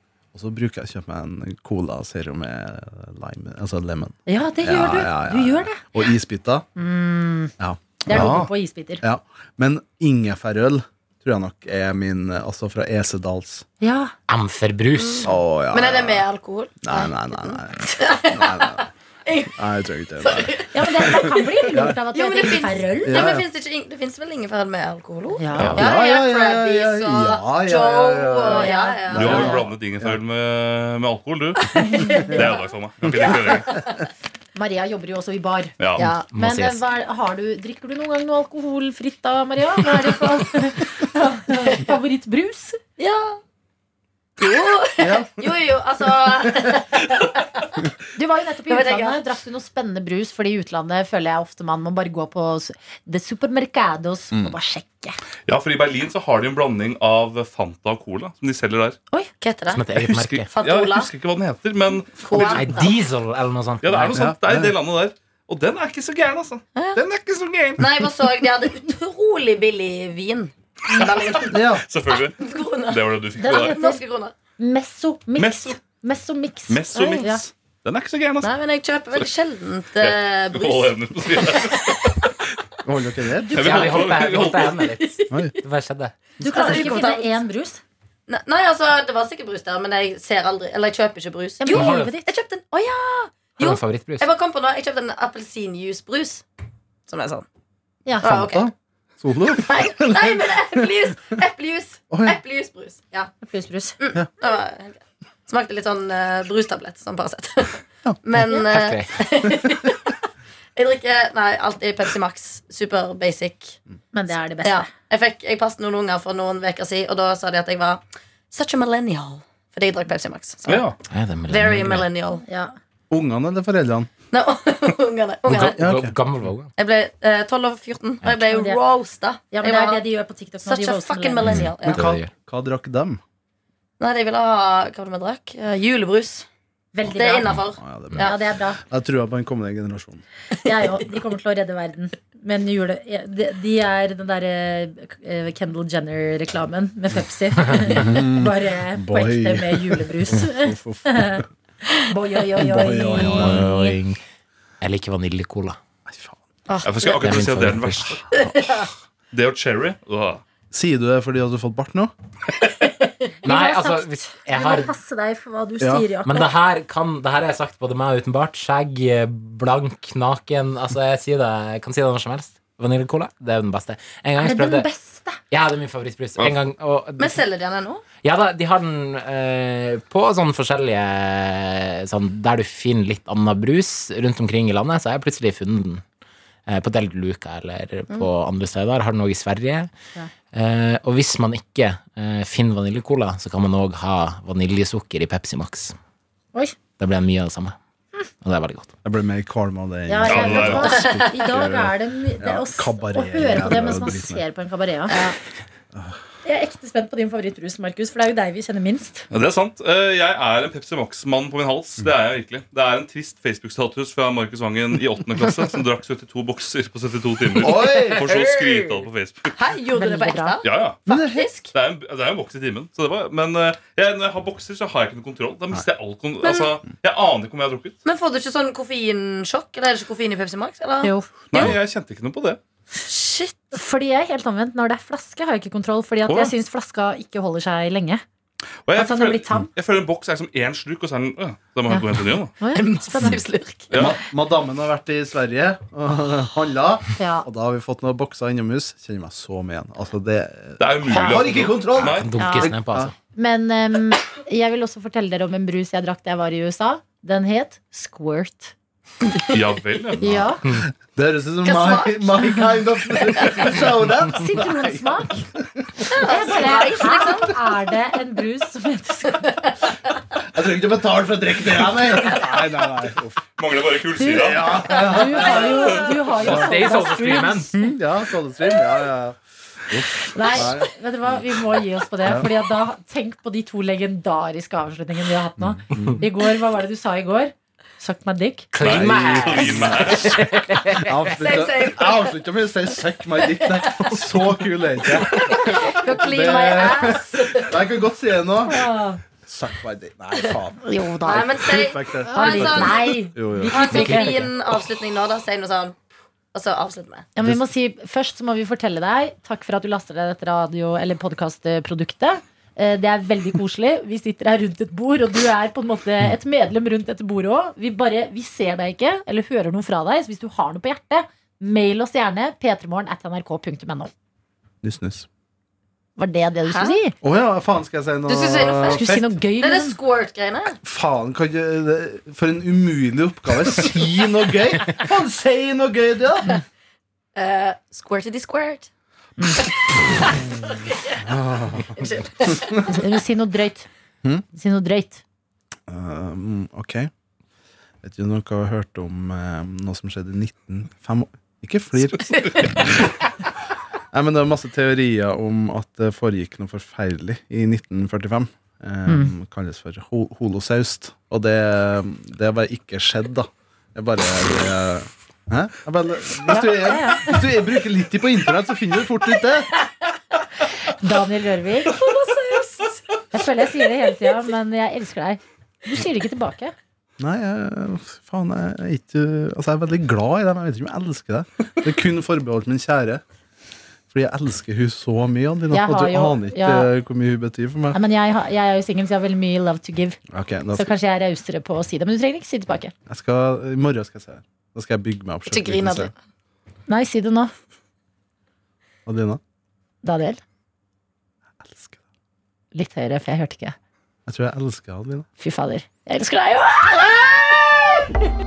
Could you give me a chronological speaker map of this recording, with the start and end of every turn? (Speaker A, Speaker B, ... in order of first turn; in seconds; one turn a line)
Speaker A: 0.3-6.7
Speaker B: 4.3-5.8
Speaker B: 6.8-7.5
Speaker A: 7.6-8.5
Speaker B: 8.0-9.0
Speaker C: 8.1-8.5
Speaker A: 9.0-13.7
Speaker B: 13.8-14.1
Speaker D: 14.3-15.3
Speaker E: 15.0-19.6
Speaker A: 15.2-16.2
Speaker A: 16.8-18.9
Speaker A: 19.6-21.2
Speaker E: 20.2-29.6
Speaker B: 20.7-23.3
Speaker A: 21.7-22.0
Speaker A: 23.1-23.4
Speaker B: 25.4-25.8
Speaker C: 25.5-25.8
Speaker A: 25.7-30.2
Speaker B: 28.5-29.6
Speaker C: 29.1-31.7
Speaker E: 31.7-32.5
Speaker B: 31.8-32.4
Speaker C: 32.2-33.8
Speaker E: 33.5-33.8
Speaker B: 34.6-35.8
Speaker C: 35.8-36.1
Speaker E: 36.0-36.2
Speaker D: 36.0-36.8
Speaker B: 36.3-42.8
Speaker E: 43.0-43.4
Speaker E: 44.4-47.9
Speaker A: 45.0-45.4
Speaker B: 48.1-55.2
Speaker E: 48.7-49.2
Speaker C: 55.5-59.0
Speaker E: 59.4-59.9
Speaker D: 59.7-60.5
Speaker C: 59.9-62.8
Speaker E: 60.5-61.1
Speaker E: 62.2-63.0
Speaker D: 62.3-64.3
Speaker C: 63.8-67.9
Speaker A: 64.1-64.8
Speaker E: 67.8-71.6
Speaker A: 71.5-71.8
Speaker C: 71.8-73.8
Speaker E: 72.2-74.3
Speaker B: 73.4-74.0
Speaker B: 74.6-77.4
Speaker C: 75.4-75.8
Speaker C: 76.7-78.5
Speaker E: 78.4-82.3
Speaker C: 80.0-82.2
Speaker A: 82.8-84.0
Speaker C: 83.5-84.8
Speaker D: 83.6-86.1
Speaker E: 84.8-85.3
Speaker B: 86.4-87.8
Speaker E: 86.4-87.4
Speaker E: 88.3-96.4
Speaker B: 91.6-92.3
Speaker D: 91.7-92.1
Speaker D: 93.6-94.3
Speaker E: 97.1-97.5
Speaker B: 98.1-98.3
Speaker A: 98.2-100.9
Speaker E: 98.2-98.7
Speaker E: 99.6-103.3
Speaker A: 102.1-102.4
Speaker B: 103.4-104.0
Speaker E: 104.0-110.2
Speaker D: 108.5-109.2
Speaker E: 110.8-113.8
Speaker B: 114.1-114.9
Speaker E: 114.6-120.9
Speaker C: 120.7-121.0
Speaker D: 121.1-122.1
Speaker E: 121.5-122.4
Speaker B: 122.5-122.8
Speaker A: 123.1-124.1
Speaker E: 124.3-125.8
Speaker D: 125.5-126.7
Speaker A: 125.6-126.2
Speaker E: 126.8-130.0
Speaker B: 128.3-128.8
Speaker B: 129.5-131.5
Speaker E: 130.6-132.2
Speaker D: 131.4-132.3
Speaker A: 131.8-133.2
Speaker E: 134.0-136.5
Speaker B: 136.9-137.6
Speaker E: 137.1-138.3
Speaker A: 137.7-140.2
Speaker B: 138.1-138.8
Speaker B: 140.6-154.0
Speaker A: 147.9-151.5
Speaker A: 152.6-153.7
Speaker D: 153.2-154.2
Speaker D: 154.8-155.8
Speaker A: 156.1-156.4
Speaker E: 156.7-157.2
Speaker C: 156.8-158.4
Speaker D: 157.2-158.2
Speaker E: 158.4-158.9
Speaker C: 159.3-160.4
Speaker A: 160.7-162.1
Speaker E: 162.6-163.3
Speaker B: 163.4-166.5
Speaker D: 163.4-164.9
Speaker A: 165.8-166.1
Speaker D: 166.2-174.9
Speaker B: 174.4-175.4
Speaker D: 175.5-177.4
Speaker E: 177.2-178.0
Speaker D: 178.2-186.0
Speaker D: 186.7-189.9
Speaker D: 190.5-196.0
Speaker D: 197.0-197.8
Speaker D: 198.4-198.9
Speaker A: 199.0-204.4
Speaker B: 200.1-205.3
Speaker C: 200.2-201.3
Speaker E: 200.9-201.4
Speaker A: 205.9-206.2
Speaker B: 206.4-209.3
Speaker C: 209.3-219.5
Speaker A: 217.6-218.3
Speaker D: 217.8-219.1
Speaker E: 219.6-221.7
Speaker B: 220.0-220.6
Speaker C: 220.6-221.0
Speaker A: 221.1-221.5
Speaker C: 221.7-228.0
Speaker E: 226.4-226.7
Speaker E: 228.1-231.8
Speaker B: 231.0-231.3
Speaker C: 231.5-232.6
Speaker E: 233.1-233.7
Speaker B: 233.7-238.2
Speaker C: 236.3-236.6
Speaker C: 238.9-242.5
Speaker B: 239.0-239.7
Speaker B: 242.6-243.4
Speaker E: 242.7-243.9
Speaker C: 243.9-244.2
Speaker A: 243.9-253.1
Speaker B: 247.2-247.5
Speaker C: 250.8-252.3
Speaker D: 252.0-253.1
Speaker B: 252.4-252.7
Speaker B: 253.3-258.7
Speaker C: 259.5-260.5
Speaker B: 260.2-260.6
Speaker A: 261.0-266.1
Speaker E: 261.6-263.8
Speaker B: 264.3-265.5
Speaker E: 266.1-267.6
Speaker B: 266.2-269.6
Speaker E: 269.5-269.7
Speaker A: 270.5-273.4
Speaker C: 273.6-276.5
Speaker B: 274.2-278.0
Speaker A: 274.4-276.8
Speaker D: 276.4-277.7
Speaker A: 277.8-281.4
Speaker B: 280.3-288.7
Speaker A: 282.2-282.5
Speaker A: 285.7-286.2
Speaker D: 288.7-291.4
Speaker C: 288.8-290.4
Speaker A: 288.8-298.9
Speaker E: 291.3-292.4
Speaker E: 293.5-294.3
Speaker E: 295.1-297.8
Speaker B: 295.7-297.2
Speaker B: 298.7-299.2
Speaker A: 299.4-303.8
Speaker B: 300.8-301.6
Speaker E: 301.2-306.0
Speaker B: 302.3-304.4
Speaker D: 303.9-304.5
Speaker E: 306.5-307.3
Speaker B: 307.4-324.1
Speaker A: 324.8-325.3
Speaker B: 326.2-327.1
Speaker E: 326.7-327.0
Speaker A: 327.2-329.3
Speaker E: 328.3-330.8
Speaker B: 328.9-330.0
Speaker A: 330.8-336.5
Speaker E: 337.4-338.9
Speaker E: 339.6-341.3
Speaker A: 341.2-342.8
Speaker E: 342.0-342.9
Speaker B: 342.9-343.9
Speaker B: 344.5-345.2
Speaker A: 345.9-347.1
Speaker A: 348.0-353.1
Speaker A: 354.1-369.7
Speaker B: 359.1-359.3
Speaker B: 366.5-367.4
Speaker B: 370.9-372.0
Speaker E: 371.9-373.3
Speaker B: 373.3-376.7
Speaker A: 377.2-383.2
Speaker A: 384.1-388.0
Speaker B: 385.7-386.9
Speaker B: 387.9-390.2
Speaker A: 390.3-390.9
Speaker B: 390.7-392.9
Speaker A: 393.1-396.1
Speaker E: 395.5-396.1
Speaker B: 396.9-397.5
Speaker A: 399.1-399.4
Speaker B: 400.0-400.4
Speaker A: 401.6-402.0
Speaker B: 402.7-403.8
Speaker A: 404.3-405.3
Speaker B: 405.4-408.1